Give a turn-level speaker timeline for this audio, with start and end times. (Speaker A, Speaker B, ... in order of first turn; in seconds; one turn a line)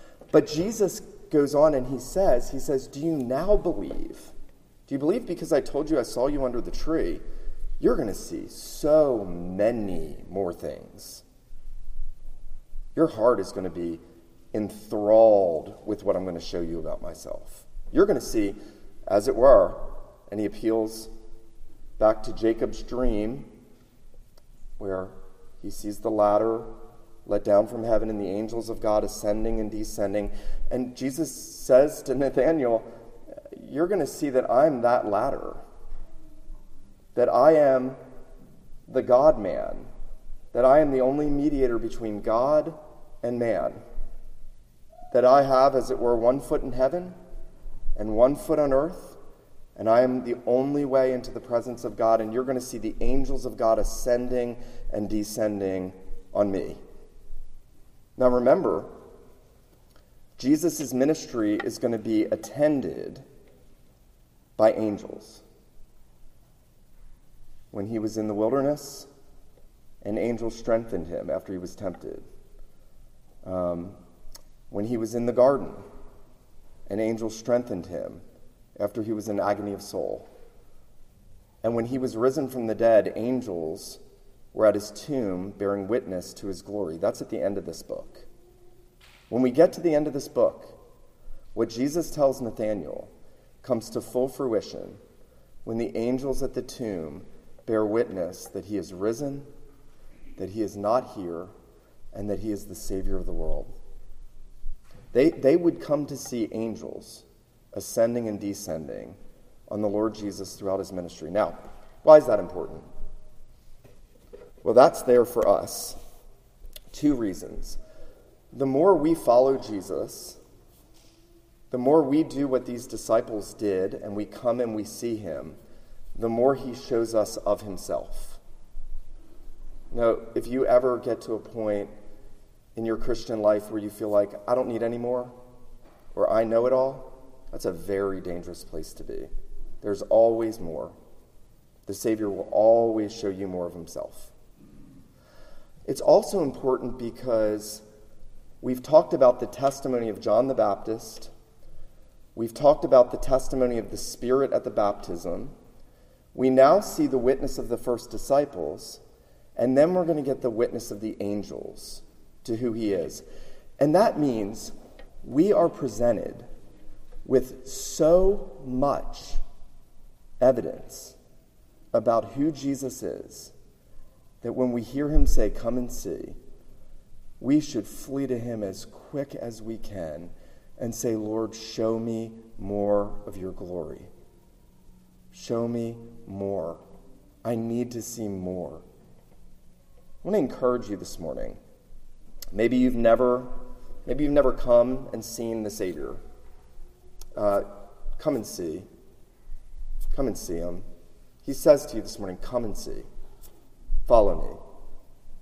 Speaker A: 0.3-4.3
Speaker A: 4.9-7.2
Speaker A: 7.8-11.2
Speaker A: 12.9-14.0
Speaker A: 14.5-21.1
Speaker A: 22.0-23.5
Speaker A: 24.8-26.7
Speaker A: 27.3-32.9
Speaker A: 33.5-35.6
Speaker A: 37.1-38.0
Speaker A: 38.9-39.9
Speaker A: 40.5-43.8
Speaker A: 45.1-47.1
Speaker A: 48.0-49.2
Speaker A: 49.8-56.8
Speaker A: 58.2-58.9
Speaker A: 60.4-63.2
Speaker A: 64.6-65.4
Speaker A: 67.7-69.1
Speaker A: 70.0-72.2
Speaker A: 73.4-74.0
Speaker A: 74.7-75.8
Speaker A: 76.9-78.2
Speaker A: 78.8-80.3
Speaker A: 81.6-84.0
Speaker A: 84.5-88.3
Speaker A: 89.3-90.7
Speaker A: 91.5-93.1
Speaker A: 93.6-95.0
Speaker A: 95.7-99.5
Speaker A: 100.4-101.5
Speaker A: 102.1-103.7
Speaker A: 105.1-109.2
Speaker A: 109.7-112.9
Speaker A: 114.6-116.0
Speaker A: 116.9-117.8
Speaker A: 118.5-120.4
Speaker A: 121.7-125.6
Speaker A: 126.2-128.4
Speaker A: 129.9-131.9
Speaker A: 132.8-135.3
Speaker A: 136.1-139.3
Speaker A: 139.8-140.9
Speaker A: 141.9-144.3
Speaker A: 145.9-147.8
Speaker A: 148.6-151.3
Speaker A: 152.3-155.5
Speaker A: 156.3-159.0
Speaker A: 159.6-163.2
Speaker A: 163.8-166.5
Speaker A: 167.2-169.4
Speaker A: 170.4-171.2
Speaker A: 171.9-173.5
Speaker A: 174.4-176.4
Speaker A: 177.4-184.1
Speaker A: 185.3-186.8
Speaker A: 187.4-188.8
Speaker A: 190.2-191.6
Speaker A: 192.5-193.5
Speaker A: 194.1-196.2
Speaker A: 197.4-197.7
Speaker A: 198.2-198.9
Speaker A: 200.1-200.8
Speaker A: 201.4-203.1
Speaker A: 204.1-204.6